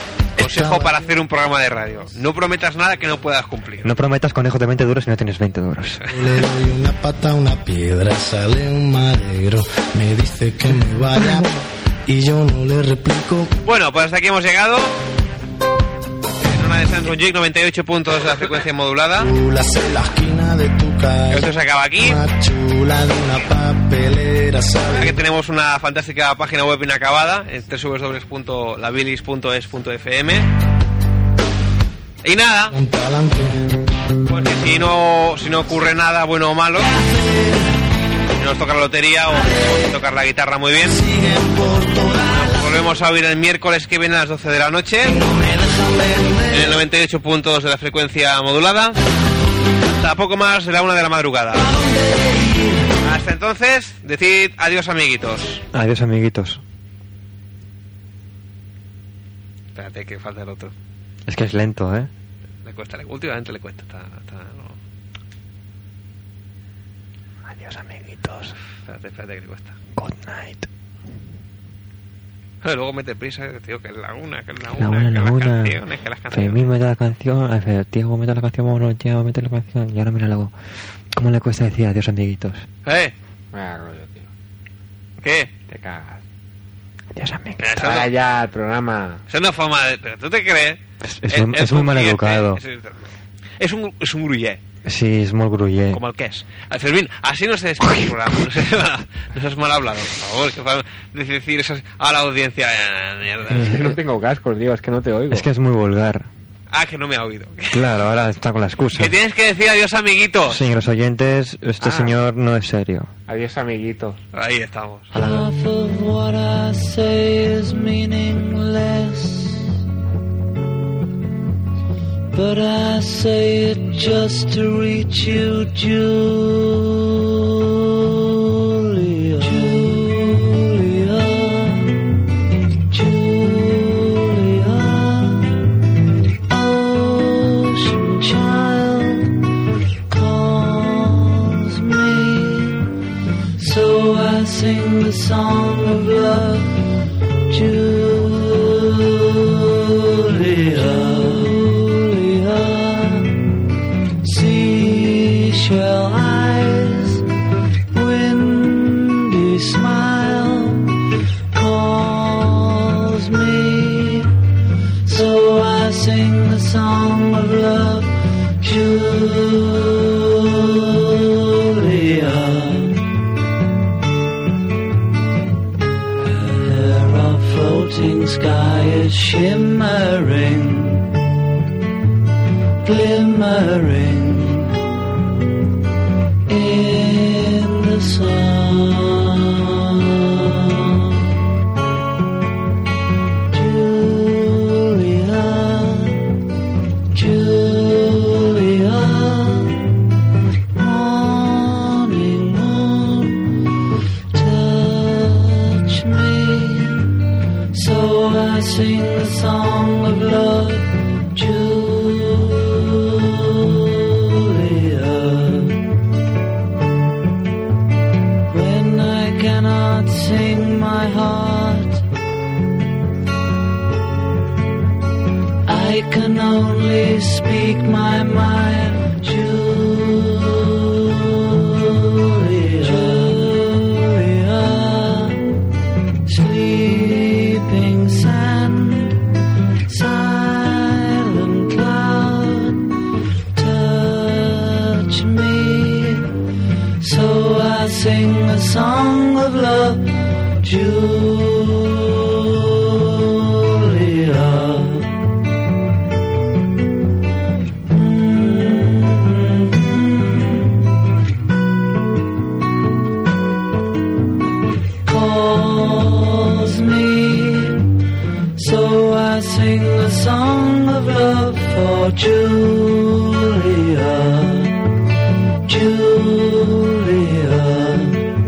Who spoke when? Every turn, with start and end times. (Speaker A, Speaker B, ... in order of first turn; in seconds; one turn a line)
Speaker A: 0.4-3.9
Speaker B: 0.4-1.0
Speaker C: 3.8-6.0
Speaker B: 6.1-13.5
Speaker C: 11.2-11.5
Speaker A: 13.6-14.9
Speaker A: 16.4-19.3
Speaker B: 19.2-25.2
Speaker A: 21.3-22.2
Speaker A: 24.9-30.5
Speaker A: 32.2-32.7
Speaker B: 32.7-33.5
Speaker A: 34.3-36.9
Speaker B: 36.9-37.6
Speaker A: 38.4-41.0
Speaker B: 40.8-42.7
Speaker A: 42.3-45.2
Speaker B: 45.0-46.7
Speaker A: 46.5-49.0
Speaker A: 50.0-51.7
Speaker B: 51.6-52.8
Speaker A: 53.0-55.6
Speaker C: 55.7-56.6
Speaker A: 59.7-60.7
Speaker C: 61.3-62.1
Speaker A: 62.6-64.8
Speaker C: 67.5-68.5
Speaker A: 68.8-69.8
Speaker C: 70.0-70.7
Speaker A: 72.6-76.7
Speaker C: 74.8-75.8
Speaker C: 76.3-80.5
Speaker C: 81.1-82.6
Speaker A: 82.8-83.1
Speaker D: 83.5-84.3
Speaker A: 85.2-85.5
Speaker D: 85.7-86.2
Speaker C: 87.1-87.9
Speaker A: 87.6-88.1
Speaker D: 87.8-89.2
Speaker A: 89.3-93.0
Speaker C: 91.0-92.6
Speaker A: 93.6-94.6
Speaker C: 94.8-96.0
Speaker A: 95.9-103.9
Speaker D: 103.5-105.5
Speaker C: 105.3-106.3
Speaker A: 106.7-107.8
Speaker C: 107.7-109.1
Speaker A: 109.0-110.6
Speaker C: 110.4-113.1
Speaker D: 111.8-112.1
Speaker D: 113.3-114.2
Speaker A: 114.3-115.1
Speaker C: 115.1-115.5
Speaker E: 115.2-119.7
Speaker E: 122.3-132.0
Speaker E: 132.9-135.6
Speaker E: 136.5-139.3
Speaker E: 140.1-142.8
Speaker E: 143.6-146.8
Speaker E: 147.5-153.4
Speaker E: 154.2-157.2
Speaker E: 157.9-160.9
Speaker E: 161.5-164.3
Speaker E: 165.1-173.0
Speaker E: 176.2-181.1
Speaker E: 182.8-184.8
Speaker E: 186.5-191.1
Speaker E: 193.5-196.2
Speaker E: 197.1-199.9
Speaker E: 200.7-203.6
Speaker E: 204.3-207.2
Speaker E: 207.7-215.8
Speaker E: 218.5-222.0
Speaker E: 225.7-235.4
Speaker E: 236.2-239.2
Speaker E: 239.9-242.8
Speaker E: 243.5-246.3
Speaker E: 247.0-255.2
Speaker E: 257.9-260.8
Speaker E: 265.1-267.9
Speaker E: 268.6-274.8
Speaker E: 275.6-278.2